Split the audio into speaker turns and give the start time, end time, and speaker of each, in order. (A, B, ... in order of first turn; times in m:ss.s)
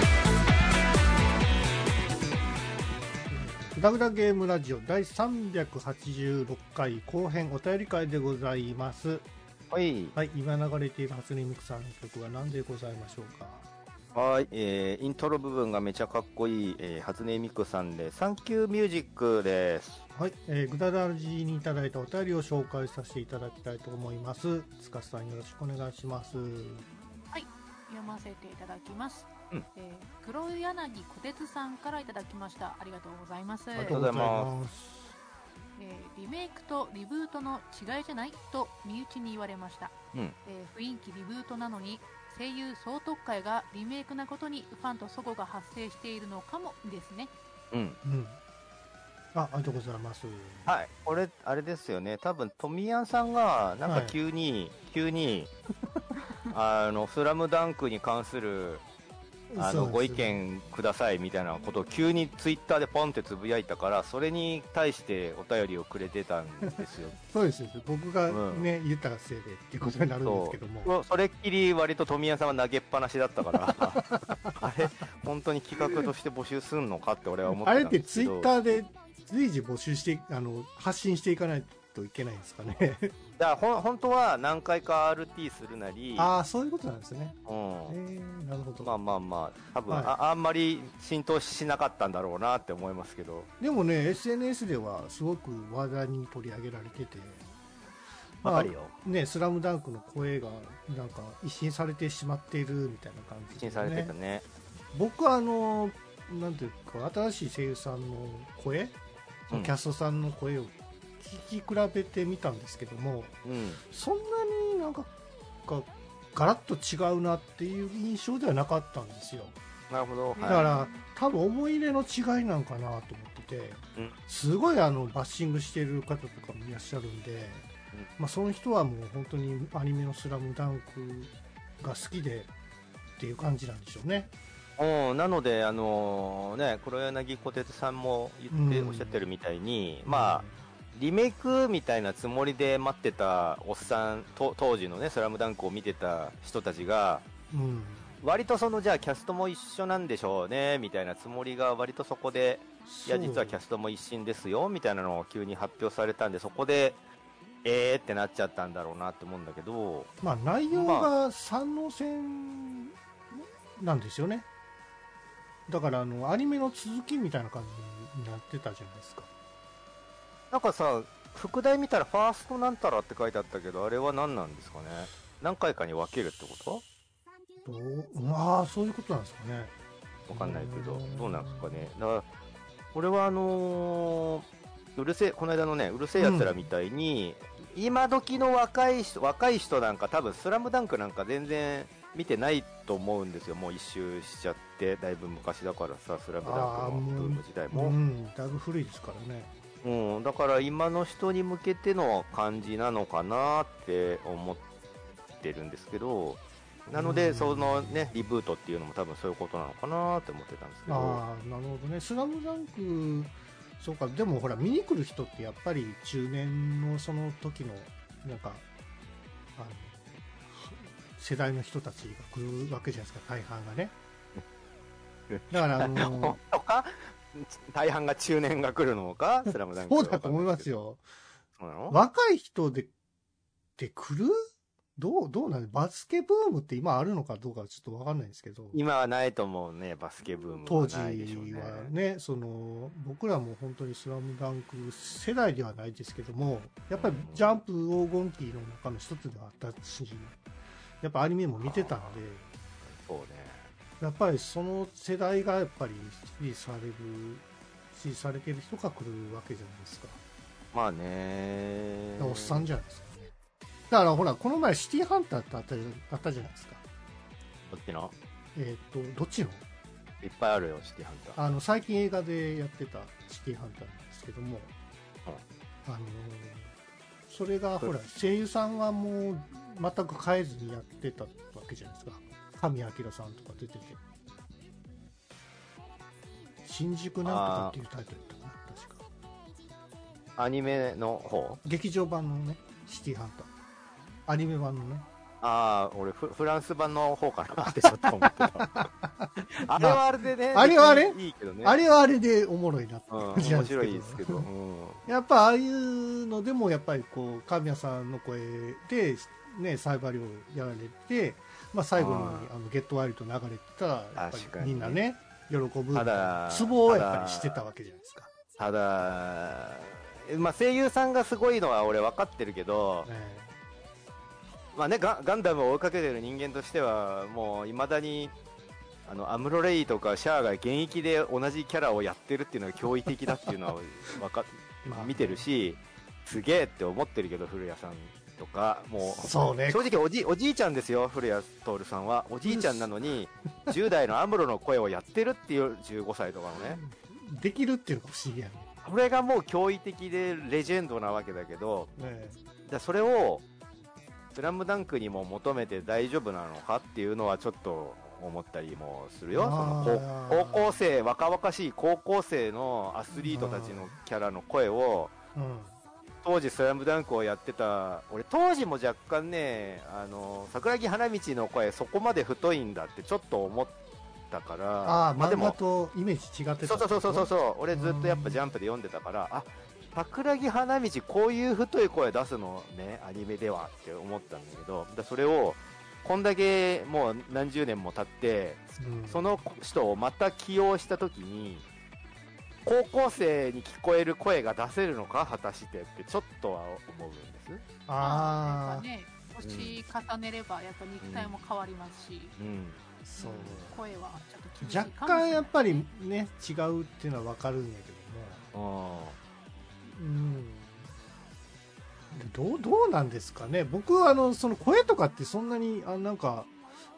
0:03.3-0:09.3 A
0:09.7-0:10.2 B
0:10.2-0:13.7 A
0:14.2-0:20.0 B
0:20.2-0:26.9 A
0:27.3-0:34.0 C
0:33.8-0:35.2 A
0:33.8-0:34.5 B
0:35.8-0:40.0 C
0:40.5-0:47.3 C
0:47.7-0:48.0 B
0:48.0-0:48.4 A
0:49.3-0:50.7 A
0:50.7-0:55.5 B
0:53.9-0:54.2 A
0:56.5-0:58.8 B
0:59.5-1:00.4 A
0:59.6-1:07.2 B
1:07.2-1:10.9 A
1:08.3-1:08.7 B
1:10.2-1:18.8 B
1:14.0-1:14.6 A
1:17.5-1:23.1 A
1:23.4-1:26.3 B
1:26.2-1:28.9 A
1:27.5-1:28.0 B
1:28.8-1:33.5 B
1:29.9-1:30.2 A
1:33.6-1:37.5 A
1:38.4-1:39.0 B
1:38.4-1:44.1 A
1:43.5-1:44.5 B
1:44.9-1:49.0 A
1:49.5-1:53.4 A
1:53.4-1:53.8 B
1:53.9-1:55.1 A
1:55.7-1:59.6 A
1:59.9-2:00.6 B
2:00.4-2:01.0 C
2:00.5-2:12.5 A
2:13.2-2:14.3 A
2:14.8-2:27.3 B
2:18.5-2:19.3 A
2:20.1-2:20.6 A
2:27.5-2:28.1 A
2:28.2-2:37.0 B
2:32.9-2:33.6 A
2:37.6-2:40.1 B
2:40.2-2:44.5 A
2:40.7-2:41.1 B
2:45.7-2:49.3 A
2:50.5-2:56.8 B
2:57.6-2:59.7 A
3:00.3-3:02.3 B
3:00.3-3:01.9 A
3:02.9-3:18.0 B
3:06.2-3:06.7 A
3:16.4-3:19.5 A
3:19.8-3:24.6 B
3:25.4-3:31.2 B
3:27.0-3:28.2 A
3:30.9-3:38.6 A
3:39.6-3:44.0 A
3:45.3-3:50.7 B
3:45.5-3:46.4 A
3:49.9-3:51.0 A
3:51.6-3:52.0 B
3:51.9-3:52.9 A
3:53.8-3:54.4 A
3:55.0-3:58.8 A
3:58.7-4:01.9 B
4:00.7-4:10.4 A
4:06.9-4:07.5 B
4:11.0-4:12.5 A
4:11.6-4:12.2 B
4:12.8-4:13.7 B
4:14.0-4:20.2 A
4:20.7-4:22.7 B
4:22.2-4:23.3 A
4:23.9-4:26.8 A
4:27.7-4:28.1 B
4:28.6-4:29.6 A
4:30.2-4:31.4 B
4:31.4-4:34.7 A
4:35.8-4:36.8 A
4:37.3-4:44.0 A
4:46.6-4:49.0 A
4:47.2-4:47.8 B
4:50.4-4:51.6 B
4:51.6-4:53.5 A
4:54.3-4:55.1 A
4:55.4-4:58.9 B
4:57.6-5:04.5 A
4:59.4-5:01.8 B
5:03.1-5:05.1 B
5:05.1-5:18.3 A
5:12.0-5:12.5 B
5:14.2-5:15.0 B
5:15.9-5:17.6 B
5:18.6-5:23.1 B
5:23.0-5:23.5 A
5:24.7-5:28.4 B
5:29.1-5:46.8 B
5:34.8-5:35.4 A
5:39.0-5:39.9 A
5:42.4-5:42.9 A
5:46.6-5:48.7 A
5:48.8-5:51.9 B
5:52.0-5:52.4 A
5:52.7-5:53.4 B
5:54.3-6:05.2 B
5:59.3-6:00.8 A
6:03.2-6:04.0 A
6:05.4-6:05.8 A
6:06.2-6:13.8 B
6:14.3-6:15.6 B
6:14.8-6:18.4 A
6:16.6-6:31.7 B
6:28.8-6:29.4 A
6:32.6-6:37.6 B
6:37.9-6:38.9 A
6:38.0-6:42.4 C
6:39.4-6:39.8 B
6:41.0-6:41.3 B
6:42.4-6:42.8 B
6:43.1-6:43.8 A
6:43.2-6:45.8 C
6:44.6-6:48.5 A
6:48.5-6:49.2 B
6:49.9-6:50.9 A
6:52.1-6:56.6 A